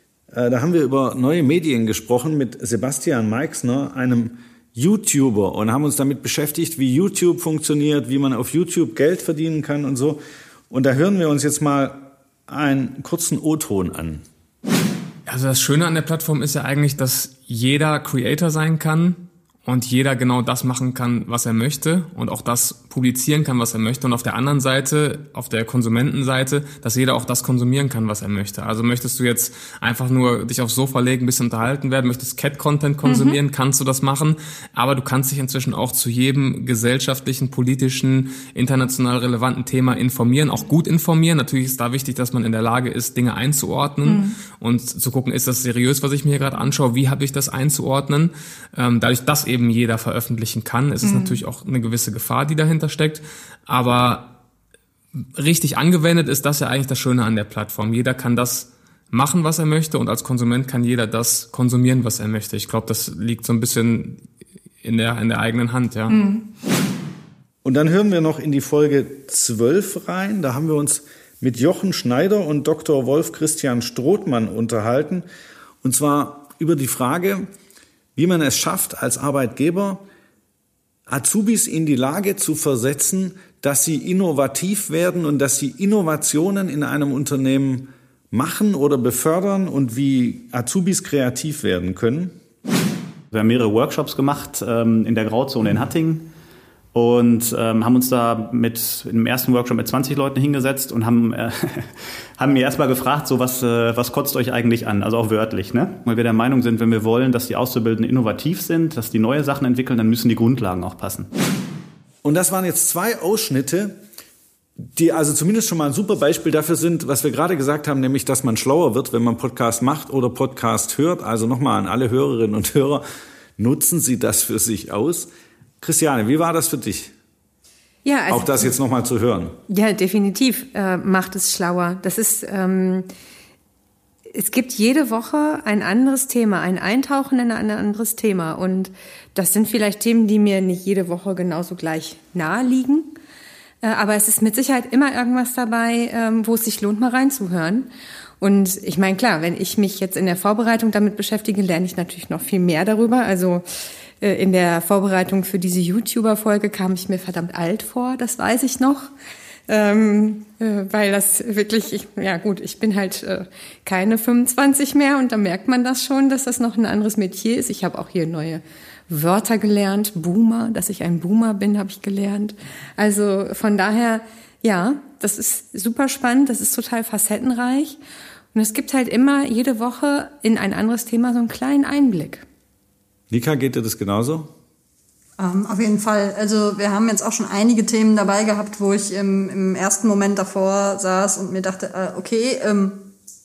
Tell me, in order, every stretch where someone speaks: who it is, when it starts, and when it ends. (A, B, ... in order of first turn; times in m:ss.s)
0:00.3-0:14.2 A
0:15.3-0:54.3 B
0:51.0-0:51.4 C
0:55.4-1:04.2 B
1:04.8-1:06.2 B
1:06.1-1:06.4 C
1:07.6-1:15.2 A
1:15.8-1:17.5 A
1:18.2-1:20.0 A
1:21.1-1:32.3 A
1:33.3-1:36.3 D
1:36.9-1:51.3 D
1:52.2-1:54.0 A
1:54.9-2:03.0 A
2:03.6-2:05.3 A
2:05.8-2:07.1 A
2:08.0-2:08.7 C
2:08.3-2:09.6 A
2:09.7-2:13.1 C
2:14.3-2:23.1 C
2:23.8-2:27.9 C
2:28.4-2:33.6 C
2:34.2-2:39.1 C
2:39.7-2:58.0 C
2:58.5-3:02.4 C
3:03.3-3:04.5 A
3:05.4-3:13.1 E